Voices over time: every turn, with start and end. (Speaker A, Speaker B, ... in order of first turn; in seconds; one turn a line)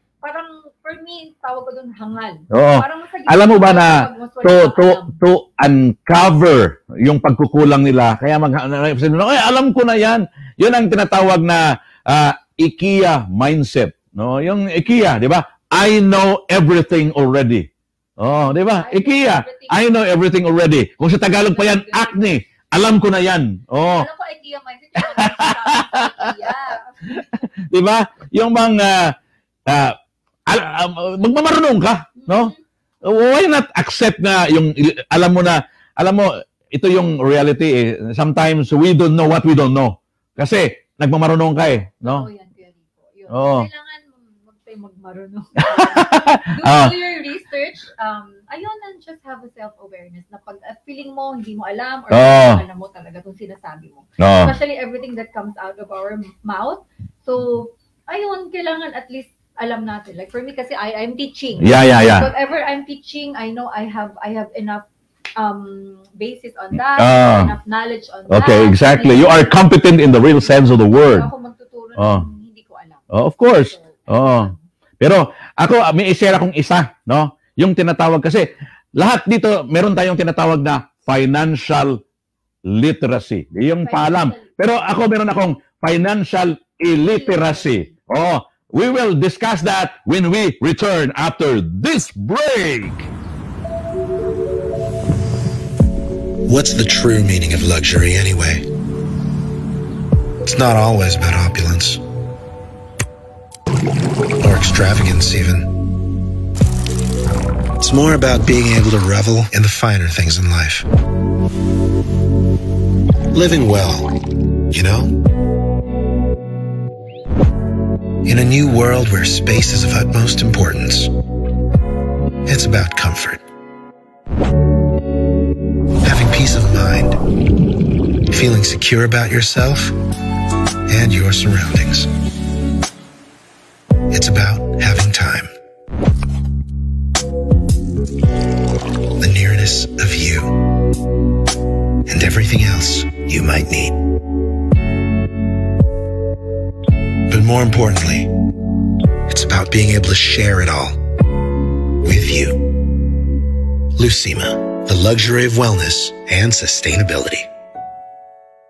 Speaker A: 0.2-5.1
Speaker B: 2.5-17.7
Speaker B: 18.2-24.1
Speaker A: 18.4-19.8
Speaker A: 21.3-22.3
Speaker A: 23.8-27.3
Speaker B: 25.0-26.4
Speaker B: 27.1-29.2
Speaker B: 29.7-32.5
Speaker A: 32.2-32.6
Speaker B: 33.0-42.3
Speaker A: 42.0-64.8
Speaker B: 43.3-43.7
Speaker B: 45.6-46.9
Speaker B: 52.1-52.6
Speaker B: 54.2-54.5
Speaker B: 61.6-62.3
Speaker A: 65.4-69.6
Speaker B: 67.0-67.5
Speaker B: 68.3-71.3
Speaker A: 70.3-74.6
Speaker B: 72.0-72.2
Speaker B: 73.1-82.0
Speaker B: 82.7-93.1
Speaker A: 83.8-84.5
Speaker A: 87.1-87.9
Speaker C: 96.5-98.7
Speaker C: 100.4-102.0
Speaker C: 104.4-105.7
Speaker C: 107.8-110.9
Speaker C: 113.3-114.1
Speaker C: 114.7-115.2
Speaker C: 118.2-121.1
Speaker C: 122.5-123.4
Speaker C: 126.0-127.2
Speaker C: 128.3-129.9
Speaker C: 130.9-132.1
Speaker C: 134.1-135.5
Speaker C: 139.2-140.6
Speaker C: 142.1-144.0
Speaker C: 147.3-148.3
Speaker C: 149.3-151.0
Speaker C: 152.0-152.7
Speaker C: 154.0-157.5